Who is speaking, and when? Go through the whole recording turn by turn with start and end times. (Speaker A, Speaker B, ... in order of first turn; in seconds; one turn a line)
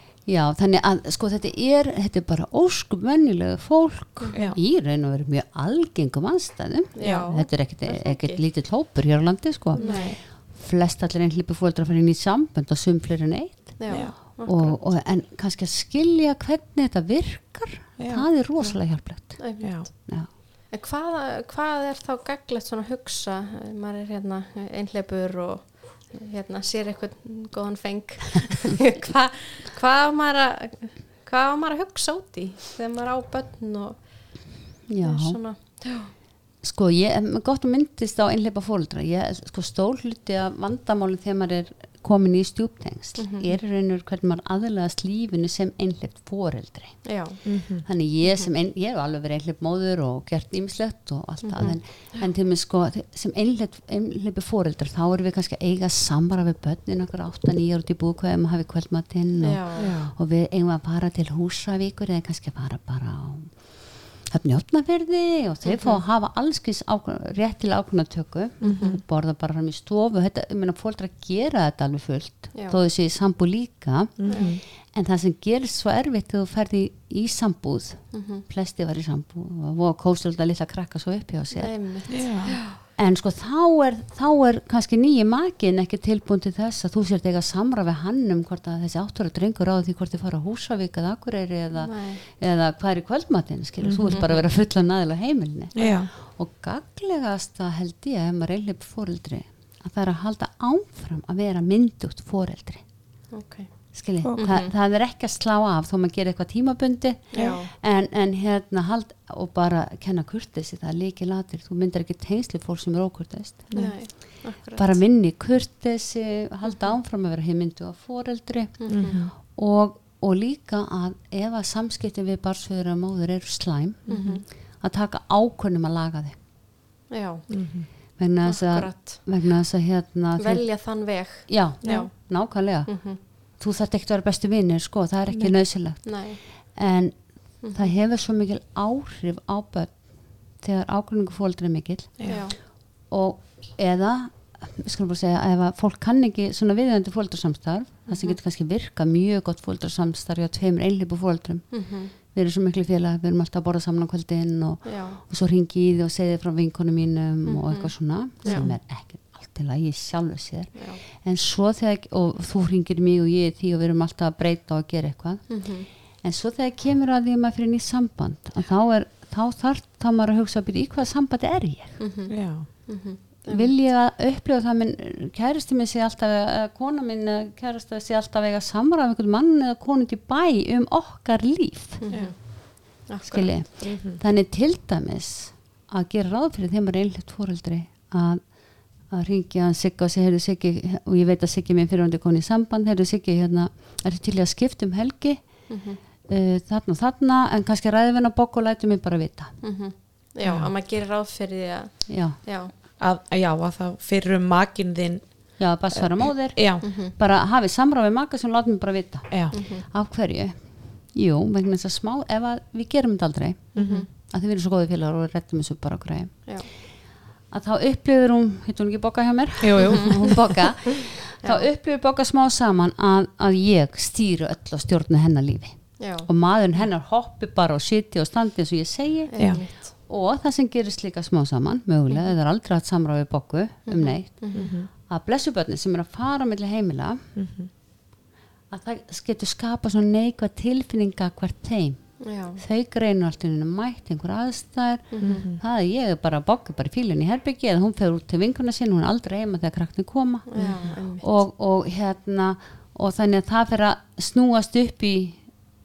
Speaker A: 0.2-20.3
Speaker B: 4.2-4.5
Speaker B: 6.9-8.4
Speaker C: 7.0-7.3
Speaker B: 9.7-10.2
Speaker C: 9.8-10.1
Speaker B: 13.8-14.8
Speaker C: 18.0-18.3
Speaker B: 19.2-36.1
Speaker C: 19.6-19.9
Speaker A: 34.9-35.4
Speaker A: 36.6-47.2
Speaker B: 43.1-43.5
Speaker B: 47.0-47.5
Speaker C: 47.5-47.9
Speaker A: 47.7-82.3
Speaker B: 51.4-51.8
Speaker B: 59.4-60.0
Speaker C: 59.8-60.1
Speaker B: 65.6-66.0
Speaker B: 68.6-69.0
Speaker C: 68.6-69.0
Speaker B: 72.5-72.8
Speaker C: 74.2-74.6
Speaker B: 74.3-74.5
Speaker B: 78.1-78.4
Speaker B: 81.5-82.8
Speaker C: 82.1-82.6
Speaker A: 82.9-102.8
Speaker B: 91.8-92.2
Speaker C: 93.8-94.4
Speaker C: 95.8-96.1
Speaker B: 103.3-104.7
Speaker A: 103.9-126.4
Speaker B: 107.3-107.7
Speaker C: 113.7-114.0
Speaker B: 113.7-115.0
Speaker B: 116.6-116.9
Speaker B: 118.8-119.3
Speaker C: 118.9-119.3
Speaker B: 124.1-124.4
Speaker B: 127.1-127.8
Speaker C: 127.5-127.9
Speaker A: 128.2-172.0
Speaker B: 128.4-129.5
Speaker B: 130.4-133.2
Speaker C: 135.3-135.6
Speaker B: 136.0-136.7
Speaker B: 137.6-137.9
Speaker C: 142.2-142.4
Speaker B: 142.2-142.6
Speaker B: 148.1-148.4
Speaker B: 151.7-152.1
Speaker B: 154.8-155.2
Speaker B: 157.4-158.7
Speaker C: 158.5-158.7
Speaker B: 160.7-161.0
Speaker B: 165.5-165.9
Speaker B: 172.0-173.7
Speaker C: 172.3-172.7
Speaker A: 173.4-182.3
Speaker B: 182.0-184.0
Speaker A: 183.2-195.7
Speaker C: 183.8-184.2
Speaker B: 195.7-196.0
Speaker A: 196.3-199.6
Speaker B: 199.6-202.7
Speaker C: 200.4-200.7
Speaker A: 202.1-202.4
Speaker C: 203.0-206.8
Speaker A: 205.6-216.9
Speaker B: 206.8-207.1
Speaker B: 209.5-209.9
Speaker B: 213.7-214.1
Speaker C: 213.8-214.0
Speaker A: 217.5-237.2
Speaker C: 219.6-220.6
Speaker B: 219.8-220.2
Speaker B: 221.4-221.7
Speaker B: 226.0-226.3
Speaker B: 229.3-229.9
Speaker B: 232.1-232.3
Speaker B: 233.8-234.7
Speaker C: 234.5-234.9
Speaker C: 237.3-237.7
Speaker A: 238.7-255.5
Speaker B: 242.2-242.6
Speaker B: 245.1-245.5
Speaker C: 245.2-245.6
Speaker B: 250.5-251.3
Speaker C: 250.6-250.9